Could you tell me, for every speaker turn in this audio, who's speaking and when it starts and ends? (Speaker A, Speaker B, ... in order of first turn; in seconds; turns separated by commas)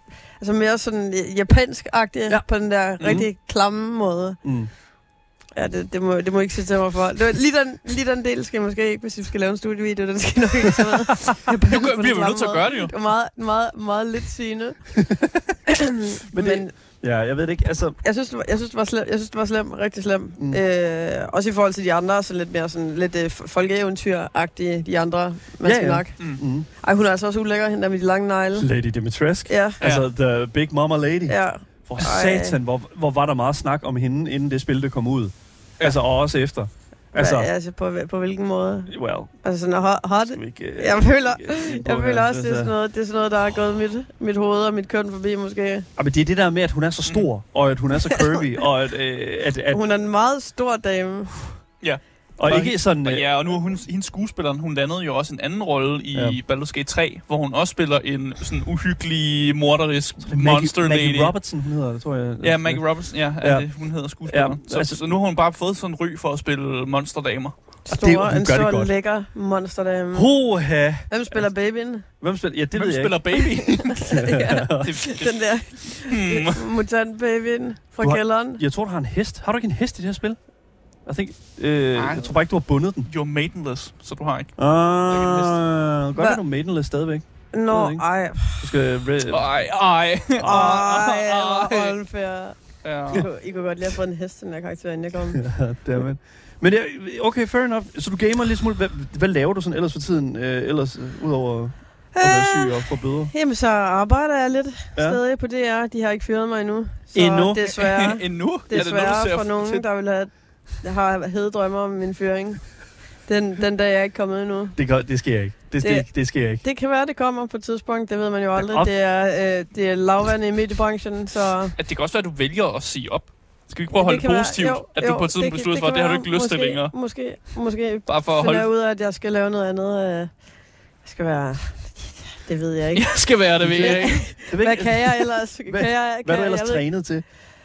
Speaker A: 0.4-4.4, Speaker B: 3.0-3.2, Speaker C: 4.4-4.7, Speaker A: 5.6-14.9, Speaker B: 11.7-12.9, Speaker C: 15.0-15.5, Speaker A: 15.7-16.7, Speaker C: 16.3-18.0, Speaker A: 18.0-26.2, Speaker C: 25.6-26.7, Speaker A: 26.8-28.7, Speaker C: 28.6-37.5, Speaker A: 29.4-29.8, Speaker A: 31.3-32.6, Speaker A: 37.1-45.9, Speaker C: 38.9-39.3, Speaker C: 40.3-42.7, Speaker C: 46.0-49.8, Speaker A: 49.7-51.3, Speaker B: 51.8-61.3, Speaker C: 52.4-53.3, Speaker C: 56.1-56.4, Speaker C: 60.2-62.8, Speaker B: 62.4-67.5, Speaker C: 63.4-63.7, Speaker C: 64.2-65.0, Speaker A: 67.9-70.3, Speaker C: 67.9-68.9, Speaker C: 70.1-71.4, Speaker A: 71.1-72.0, Speaker C: 72.2-73.2, Speaker B: 72.7-74.1, Speaker A: 73.4-78.6, Speaker C: 74.0-75.0, Speaker B: 74.8-76.7, Speaker C: 78.0-80.4, Speaker C: 81.1-83.1, Speaker B: 81.9-82.3, Speaker B: 83.1-84.5, Speaker C: 84.6-88.0, Speaker B: 85.1-85.6, Speaker A: 87.5-88.7, Speaker C: 88.6-89.5, Speaker B: 89.3-92.0, Speaker C: 90.4-90.8, Speaker A: 90.4-92.6, Speaker B: 92.8-93.3, Speaker A: 93.1-95.4, Speaker C: 95.3-103.3, Speaker A: 102.2-112.6, Speaker C: 107.1-107.6, Speaker B: 107.6-109.8, Speaker A: 113.2-114.8, Speaker C: 114.8-116.6, Speaker A: 115.8-116.1, Speaker A: 116.6-121.8, Speaker C: 118.6-118.9, Speaker B: 121.8-126.9, Speaker A: 123.9-130.3, Speaker B: 128.1-128.7, Speaker A: 131.0-136.8, Speaker B: 132.9-134.3, Speaker C: 133.6-137.2